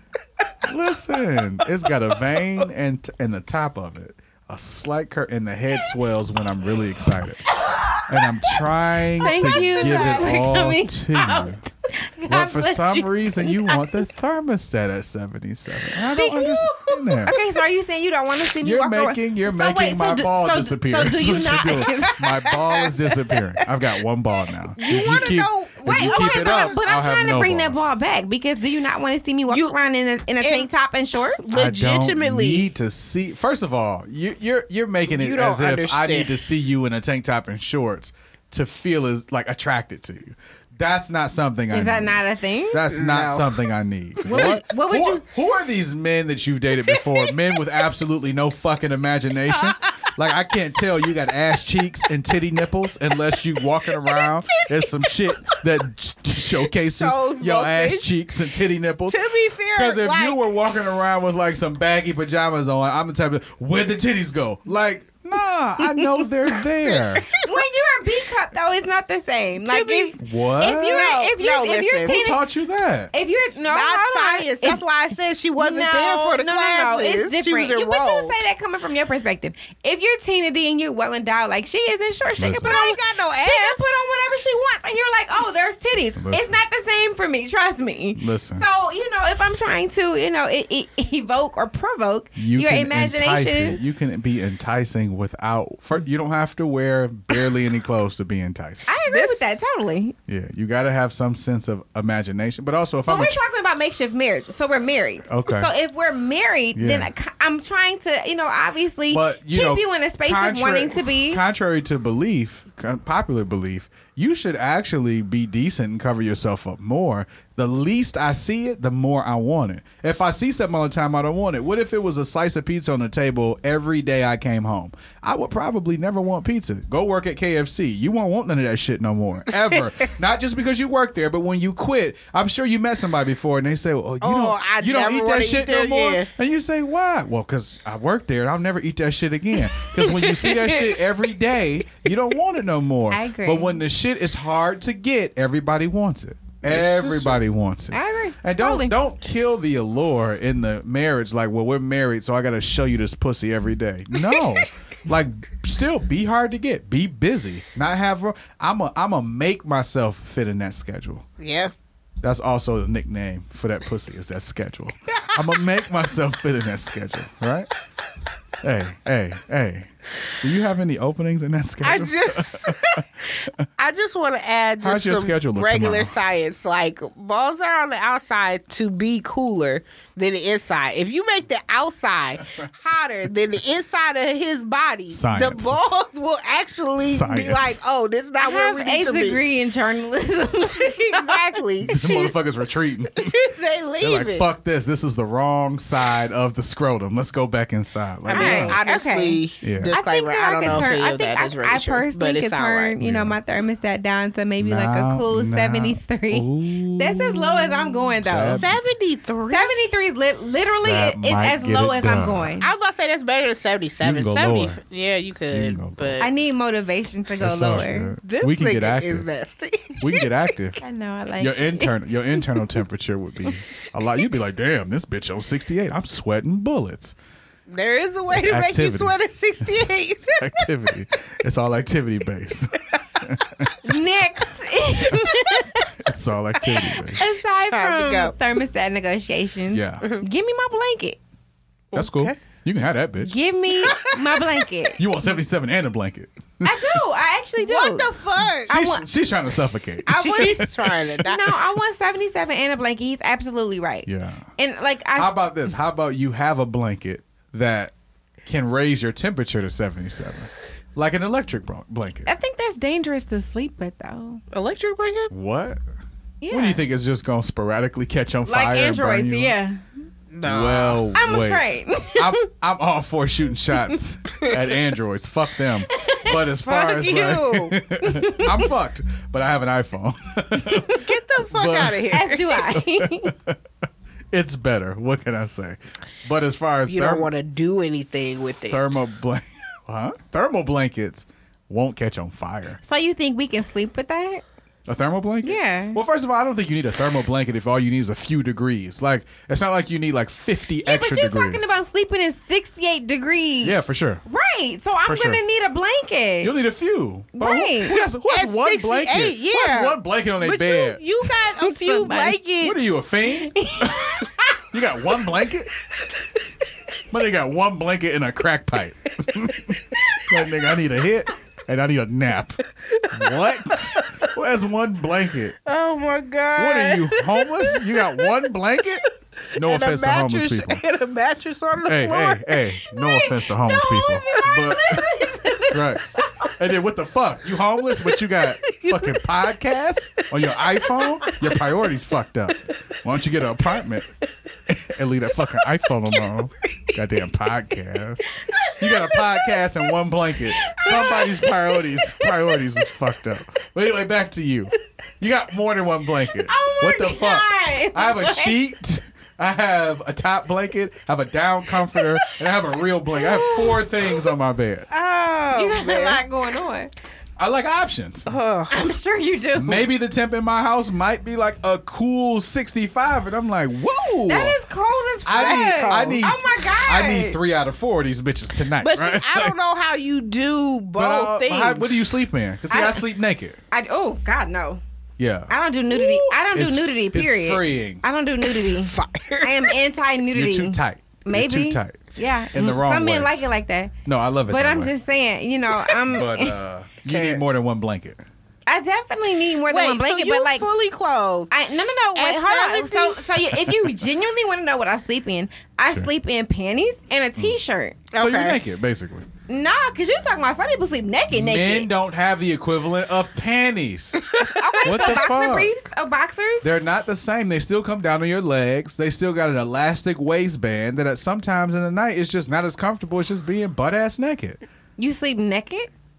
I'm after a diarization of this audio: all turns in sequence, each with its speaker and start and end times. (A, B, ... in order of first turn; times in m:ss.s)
0:00.6-0:07.4 A
0:07.5-0:08.5 B
0:08.1-0:11.6 A
0:09.2-0:14.0 B
0:09.2-0:10.4 C
0:12.3-0:17.3 A
0:16.1-0:16.7 B
0:16.4-0:17.4 C
0:17.2-0:22.2 B
0:18.6-0:27.9 A
0:22.1-0:23.4 C
0:24.8-0:26.8 C
0:24.8-0:25.2 B
0:25.8-0:31.5 B
0:29.5-0:29.7 C
0:30.4-0:30.7 C
0:31.4-0:32.7 C
0:31.5-0:42.2 A
0:35.1-0:36.3 C
0:41.7-0:42.8 B
0:42.7-0:59.2 A
0:42.9-0:43.7 C
0:44.2-0:44.6 C
0:44.3-0:45.2 B
0:54.1-0:54.7 C
0:56.7-0:58.1 C
0:59.1-1:00.4 C
0:59.7-1:07.3 A
1:06.8-1:07.6 C
1:07.4-1:12.4 B
1:09.6-1:10.2 C
1:10.2-1:11.0 A
1:10.8-1:12.2 C
1:12.0-1:13.1 A
1:13.1-1:14.8 B
1:13.7-1:18.4 C
1:15.6-1:33.8 B
1:22.4-1:22.8 A
1:22.6-1:24.0 C
1:26.2-1:26.6 A
1:28.2-1:28.6 A
1:32.4-1:38.8 A
1:38.8-1:40.1 B
1:39.1-1:39.5 C
1:40.3-1:43.4 A
1:43.1-1:51.4 B
1:45.3-1:45.7 A
1:46.7-1:47.1 A
1:49.1-2:41.2 A
2:14.2-2:16.3 C
2:20.0-2:20.9 C
2:23.1-2:23.8 B
2:26.7-2:27.4 C
2:27.9-2:28.9 B
2:34.2-2:34.6 C
2:41.4-2:41.7 C
2:42.2-2:47.7 A
2:48.6-2:49.9 A
2:50.4-2:53.0 A
2:51.8-3:09.4 C
2:54.8-2:56.1 A
3:05.1-3:05.8 A
3:07.0-3:07.8 A
3:08.4-3:11.4 B
3:10.7-3:12.3 C
3:11.8-3:13.3 A
3:13.2-3:14.4 C
3:14.0-3:18.8 A
3:18.3-3:22.9 C
3:18.3-3:28.7 B
3:19.6-3:19.9 A
3:23.0-3:23.4 A
3:24.6-3:28.8 A
3:28.3-3:29.7 C
3:29.5-3:32.7 B
3:30.8-3:32.5 A
3:32.6-3:36.3 C
3:34.0-3:34.8 A
3:35.5-3:36.2 A
3:36.2-3:38.1 B
3:37.4-3:39.2 A
3:38.2-3:40.3 C
3:40.0-3:40.8 A
3:40.8-3:41.9 B
3:41.4-3:47.1 A
3:47.7-3:50.6 C
3:48.3-3:54.0 A
3:53.8-3:55.9 B
3:56.0-3:57.2 A
3:57.1-4:01.2 B
3:57.5-3:58.3 C
3:59.7-4:00.0 A
4:01.9-4:02.4 C
4:01.9-4:03.3 A
4:03.2-4:05.0 B
4:03.8-4:04.4 C
4:05.0-4:07.0 A
4:06.6-4:08.1 B
4:07.6-4:08.8 C
4:08.4-4:10.7 A
4:08.7-4:09.0 B
4:10.0-4:15.4 B
4:10.1-4:11.6 C
4:14.0-4:14.5 A
4:15.2-4:17.9 A
4:18.4-4:22.3 A
4:22.2-4:24.4 B
4:24.5-4:25.3 C
4:25.3-4:25.8 A
4:26.4-4:26.8 B
4:26.5-4:29.6 A
4:28.4-4:29.8 B
4:30.3-4:31.0 C
4:30.4-4:42.1 A
4:31.1-4:32.4 B
4:35.9-4:36.3 B
4:36.6-4:37.8 C
4:38.0-4:38.5 B
4:40.9-4:42.4 C
4:42.1-4:43.3 B
4:42.7-4:43.6 A
4:44.3-4:47.3 A
4:46.9-4:48.8 C
4:48.7-4:52.8 A
4:52.8-4:54.4 B
4:54.9-5:01.8 A
4:55.4-4:56.0 B
5:00.8-5:06.5 B
5:03.6-5:04.2 A
5:05.0-5:05.4 A
5:06.4-5:11.0 A
5:07.3-5:08.0 B
5:08.2-5:12.9 C
5:11.6-5:12.4 B
5:12.6-5:15.7 A
5:13.3-5:14.6 B
5:17.1-5:25.5 A
5:22.9-5:24.1 C
5:25.6-5:28.3 C
5:26.6-5:30.8 A
5:28.9-5:32.7 C
5:31.8-5:35.1 A
5:32.9-5:35.8 B
5:35.7-5:44.1 A
5:37.9-5:39.4 C
5:40.8-5:41.4 C
5:44.7-6:04.9 A
5:48.5-5:48.8 B
5:50.6-5:51.4 B
5:56.5-5:58.6 B
6:03.4-6:03.7 B
6:04.9-6:06.2 C
6:05.5-6:06.9 B
6:07.4-6:08.3 A
6:08.3-6:08.7 C
6:08.7-6:09.9 B
6:09.6-6:14.6 A
6:14.3-6:17.4 B
6:15.2-6:19.5 A
6:15.4-6:16.2 C
6:18.8-6:22.2 C
6:21.0-6:23.6 A
6:22.7-6:23.0 B
6:23.7-6:24.8 B
6:25.2-6:28.0 A
6:25.5-6:33.9 B
6:28.4-6:29.7 C
6:30.3-6:33.4 A
6:34.0-6:34.9 A
6:34.5-6:36.6 B
6:36.0-6:38.2 A
6:37.0-6:37.4 C
6:38.7-6:40.7 B
6:39.7-6:41.5 C
6:41.5-6:48.0 B
6:42.1-6:43.2 C
6:43.6-6:43.9 A
6:48.1-6:48.6 C
6:48.2-6:49.2 A
6:49.5-6:51.9 B
6:51.3-6:54.2 A
6:54.3-6:55.1 C
6:54.4-6:56.7 B
6:54.8-6:55.7 A
6:56.6-7:04.6 A
7:05.0-7:05.9 B